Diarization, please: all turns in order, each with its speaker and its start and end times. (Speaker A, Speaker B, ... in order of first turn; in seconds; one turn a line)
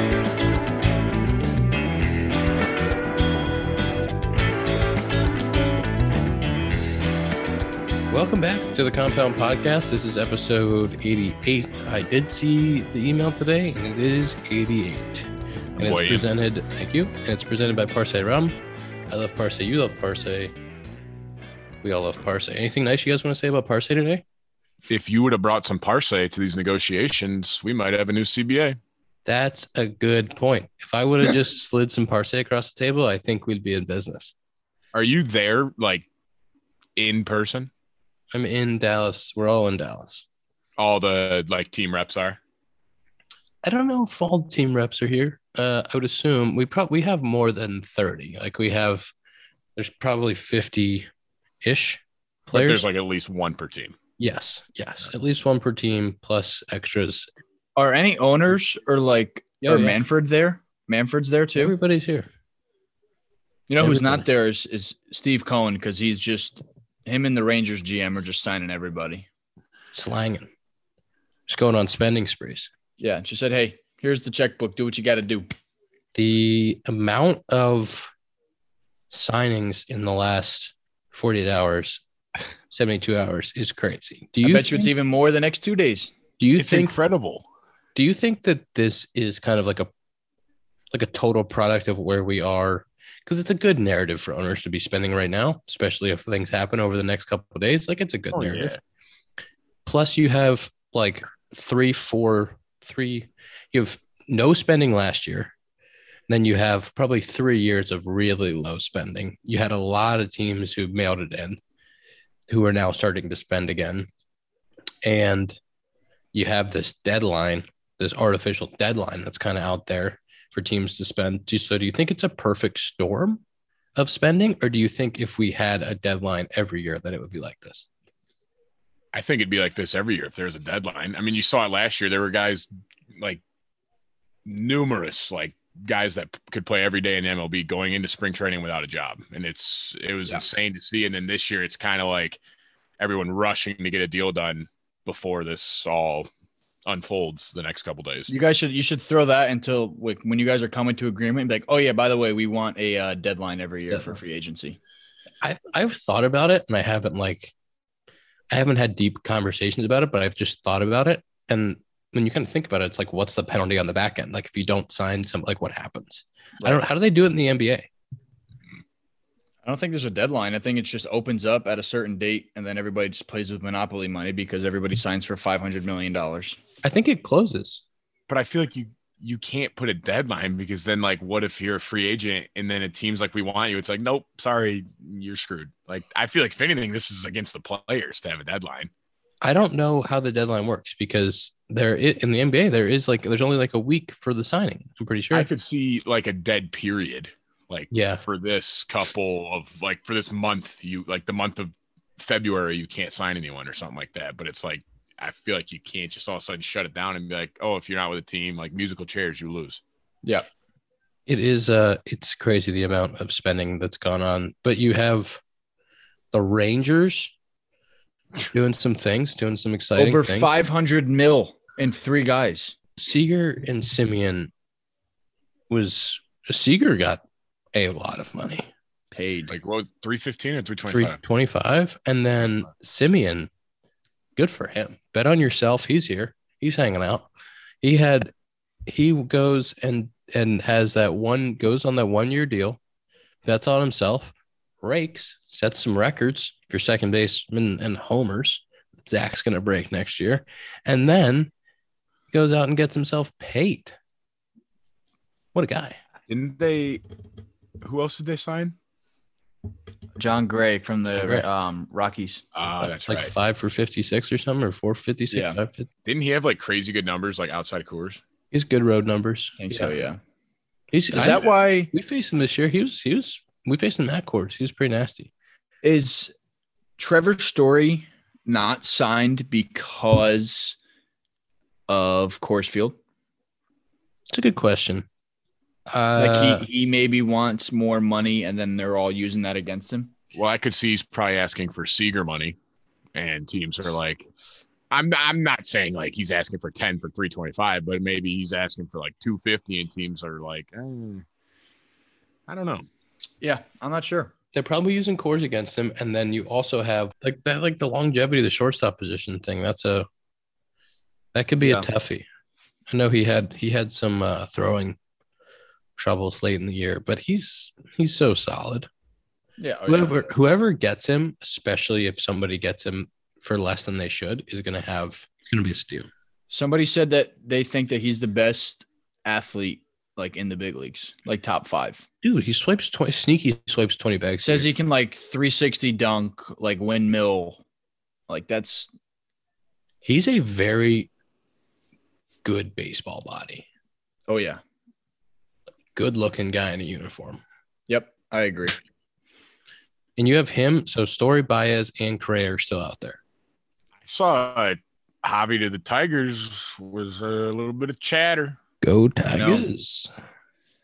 Speaker A: 8.1-18.6
Speaker B: 15.8-16.3
Speaker A: 19.1-20.5
Speaker A: 21.8-24.2
Speaker B: 24.9-28.8
Speaker A: 29.2-34.3
Speaker B: 34.9-36.0
Speaker B: 37.0-37.7
Speaker A: 38.3-40.2
Speaker B: 40.8-42.4
Speaker A: 43.6-49.1
Speaker A: 49.8-51.1
Speaker A: 51.6-52.8
Speaker B: 52.5-54.0
Speaker A: 54.2-57.3
Speaker C: 57.8-61.7
Speaker A: 59.6-60.0
Speaker A: 61.6-62.3
Speaker C: 63.7-69.2
Speaker A: 63.8-64.2
Speaker A: 69.9-70.5
Speaker A: 71.5-72.7
Speaker C: 73.0-75.5
Speaker A: 76.1-78.1
Speaker A: 79.1-82.0
Speaker A: 82.7-84.9
Speaker C: 84.4-86.1
Speaker A: 86.4-86.9
Speaker B: 86.6-87.4
Speaker A: 87.9-89.9
Speaker A: 90.9-98.8
Speaker B: 98.3-98.8
Speaker A: 99.8-105.5
Speaker A: 106.3-111.6
Speaker A: 112.5-114.1
Speaker A: 115.0-115.6
Speaker A: 116.3-123.4
Speaker A: 124.0-127.9
Speaker B: 129.1-133.4
Speaker B: 134.4-142.4
Speaker B: 143.0-146.3
Speaker B: 146.8-148.3
Speaker C: 148.3-154.8
Speaker A: 153.9-154.2
Speaker A: 155.4-157.5
Speaker A: 158.5-167.8
Speaker C: 166.6-166.8
Speaker C: 169.6-176.6
Speaker A: 176.8-177.8
Speaker B: 178.3-188.9
Speaker A: 189.4-195.5
Speaker B: 195.3-209.8
Speaker A: 197.9-198.2
Speaker A: 211.3-215.4
Speaker A: 216.3-217.3
Speaker A: 218.5-220.6
Speaker C: 219.9-222.7
Speaker A: 223.0-224.5
Speaker A: 225.7-227.2
Speaker A: 227.7-228.7
Speaker C: 229.1-229.5
Speaker B: 229.5-231.2
Speaker A: 230.8-233.5
Speaker A: 234.3-237.3
Speaker A: 237.8-238.3
Speaker A: 238.8-242.8
Speaker A: 243.4-251.5
Speaker A: 252.3-253.9
Speaker A: 255.5-256.0
Speaker B: 256.3-257.0
Speaker B: 257.8-258.8
Speaker C: 260.1-262.4
Speaker A: 261.2-261.4
Speaker B: 262.5-263.3
Speaker A: 262.8-265.9
Speaker C: 265.3-265.6
Speaker B: 266.1-268.2
Speaker A: 268.5-269.9
Speaker C: 269.6-270.2
Speaker A: 270.9-275.3
Speaker C: 271.1-271.9
Speaker C: 275.8-276.3
Speaker C: 277.0-280.8
Speaker C: 281.9-283.0
Speaker A: 284.3-285.1
Speaker A: 285.9-286.7
Speaker C: 286.1-290.1
Speaker B: 290.3-292.6
Speaker B: 293.1-294.3
Speaker B: 294.9-301.2
Speaker B: 302.5-302.9
Speaker C: 303.4-304.3
Speaker A: 304.5-310.1
Speaker A: 311.3-312.2
Speaker C: 311.6-311.9
Speaker A: 312.9-315.0
Speaker A: 316.0-318.9
Speaker C: 319.6-320.1
Speaker A: 319.9-326.1
Speaker C: 326.5-332.0
Speaker A: 332.2-334.7
Speaker C: 334.4-337.6
Speaker C: 338.3-338.9
Speaker A: 340.0-341.1
Speaker A: 342.4-343.6
Speaker C: 344.3-344.6
Speaker A: 345.9-347.4
Speaker C: 347.9-348.8
Speaker A: 350.1-353.2
Speaker B: 354.1-358.6
Speaker A: 358.8-360.1
Speaker C: 359.3-359.7